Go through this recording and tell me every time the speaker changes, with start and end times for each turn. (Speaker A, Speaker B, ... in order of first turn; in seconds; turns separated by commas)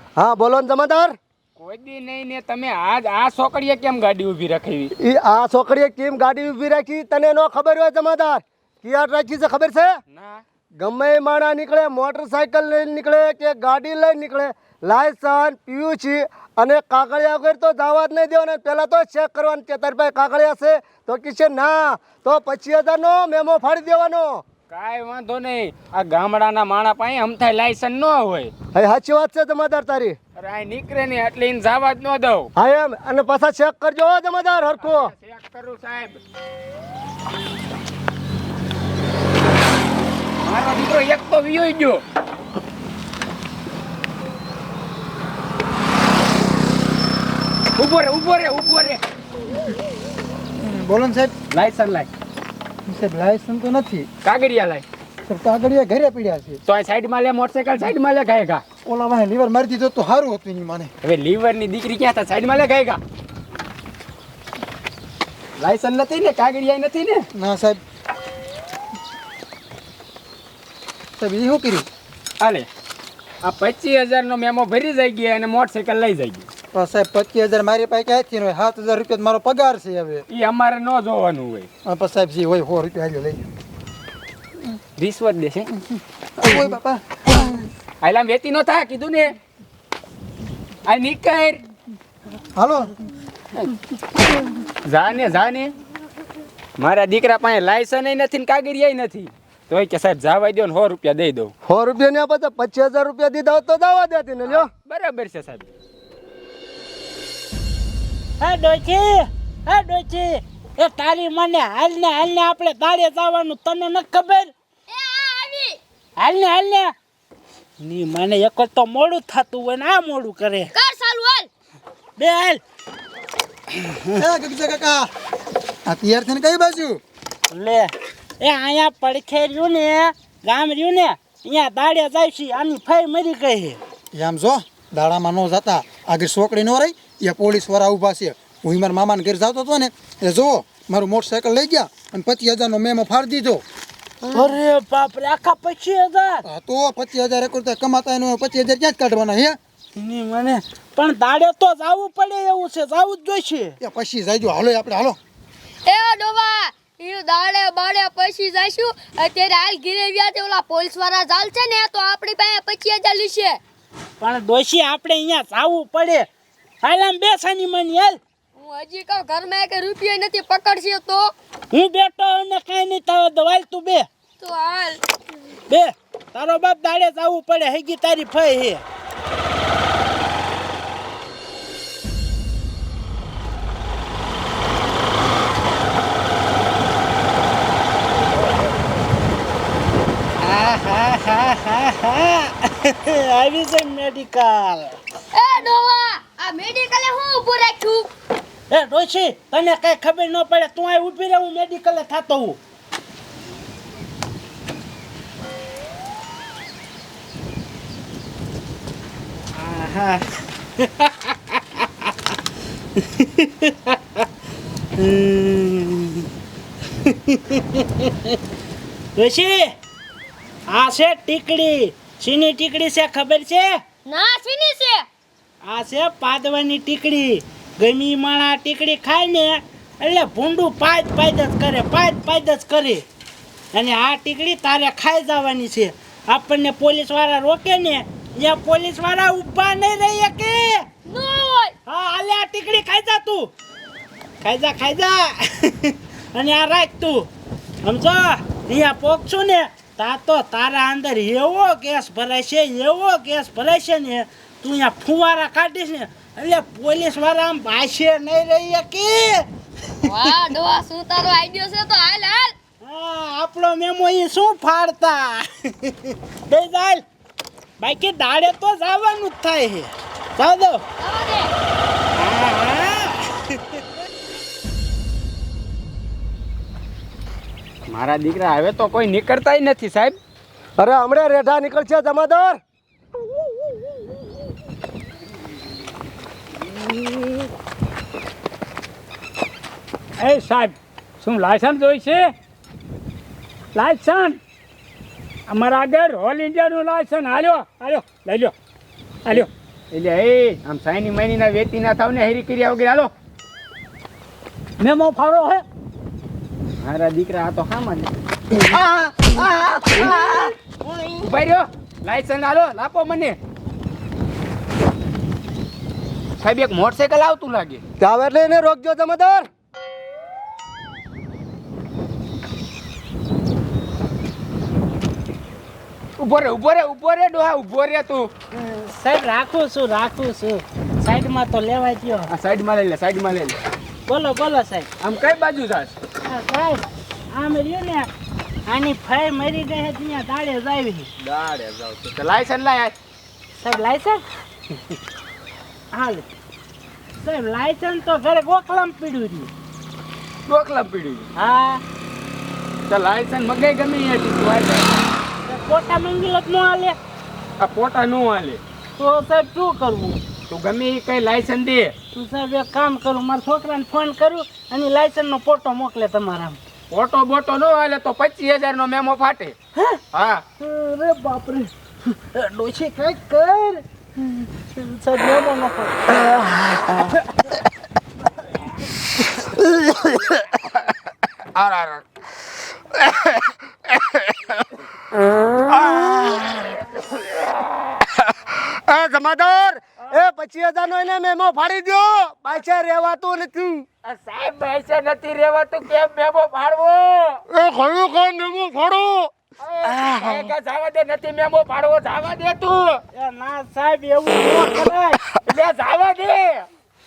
Speaker A: 0.2-1.1, Speaker B: 1.6-4.9, Speaker A: 5.0-9.9, Speaker B: 10.1-10.4, Speaker A: 10.8-24.4, Speaker B: 24.7-28.5, Speaker A: 28.8-30.2, Speaker B: 30.4-32.5, Speaker A: 32.6-35.1, Speaker B: 34.8-36.2, Speaker B: 40.4-42.0, Speaker B: 47.8-49.0, Speaker C: 50.6-51.3, Speaker B: 51.5-52.1, Speaker C: 52.9-54.1, Speaker B: 54.2-54.9, Speaker C: 55.3-56.6, Speaker B: 56.7-58.6, Speaker C: 58.9-60.9, Speaker B: 61.0-63.0, Speaker B: 65.6-67.3, Speaker C: 67.3-67.8, Speaker C: 71.2-71.9, Speaker B: 72.4-72.7, Speaker B: 73.4-76.5, Speaker C: 76.7-80.2, Speaker B: 80.3-81.7, Speaker C: 81.8-83.4, Speaker B: 85.0-85.8, Speaker C: 86.4-87.7, Speaker B: 88.0-89.4, Speaker B: 90.9-91.6, Speaker C: 92.6-93.0, Speaker B: 94.8-95.8, Speaker B: 96.8-101.5, Speaker A: 101.7-104.7, Speaker B: 104.5-105.7, Speaker D: 108.4-114.5, Speaker E: 114.9-115.8, Speaker D: 116.2-116.9, Speaker D: 117.8-120.7, Speaker E: 120.7-121.5, Speaker D: 122.2-122.6, Speaker D: 123.7-124.2, Speaker C: 124.2-125.1, Speaker C: 125.9-127.0, Speaker D: 127.5-133.8, Speaker C: 134.1-143.6, Speaker D: 144.3-146.4, Speaker C: 146.4-149.6, Speaker D: 149.9-153.8, Speaker C: 153.8-155.2, Speaker E: 155.9-163.6, Speaker D: 164.2-166.3, Speaker D: 166.8-168.2, Speaker E: 168.6-171.3, Speaker D: 171.7-174.1, Speaker E: 174.4-175.0, Speaker D: 175.7-178.8, Speaker D: 190.4-195.0, Speaker E: 195.3-198.1, Speaker D: 198.7-202.6, Speaker D: 209.6-212.1, Speaker D: 212.9-214.2, Speaker D: 214.9-216.3, Speaker D: 217.0-218.4, Speaker D: 219.2-219.7, Speaker D: 220.7-223.8, Speaker E: 224.1-225.1, Speaker D: 225.6-233.0, Speaker D: 233.7-240.9, Speaker E: 241.1-241.7, Speaker D: 241.9-243.5, Speaker D: 244.4-247.3, Speaker D: 247.8-259.5, Speaker D: 260.0-260.4, Speaker E: 260.1-262.5, Speaker D: 262.8-267.0, Speaker D: 267.8-270.8, Speaker E: 271.0-271.5, Speaker D: 272.1-273.8, Speaker B: 277.9-280.2, Speaker A: 280.8-282.6, Speaker B: 290.2-292.3, Speaker B: 293.8-294.4, Speaker D: 295.5-298.3, Speaker B: 295.6-298.5, Speaker B: 299.3-303.1, Speaker D: 304.8-305.6, Speaker B: 306.8-308.1, Speaker A: 308.6-310.3, Speaker B: 309.9-310.3, Speaker D: 310.9-311.2, Speaker B: 311.2-313.4, Speaker B: 316.4-317.8, Speaker A: 318.0-319.5, Speaker B: 326.2-328.3, Speaker D: 328.5-332.3, Speaker B: 332.3-333.6, Speaker D: 334.1-334.9, Speaker B: 335.0-336.0, Speaker D: 336.2-338.1, Speaker D: 338.7-341.1, Speaker B: 341.2-343.0, Speaker D: 343.6-344.2, Speaker D: 345.9-346.3, Speaker D: 347.2-349.5, Speaker B: 350.5-351.3, Speaker D: 351.4-351.8, Speaker B: 352.9-355.1, Speaker D: 355.4-357.0, Speaker B: 357.6-358.6, Speaker D: 359.0-360.2, Speaker B: 360.5-362.0, Speaker D: 362.1-366.6, Speaker B: 366.9-369.6, Speaker D: 369.8-370.0, Speaker B: 370.1-370.4, Speaker D: 370.6-377.4, Speaker B: 381.6-382.0, Speaker B: 383.0-384.5, Speaker B: 385.7-387.0, Speaker A: 388.6-393.9, Speaker B: 394.0-397.4, Speaker A: 397.5-399.3, Speaker B: 399.6-403.0, Speaker D: 403.1-405.2, Speaker B: 405.4-406.7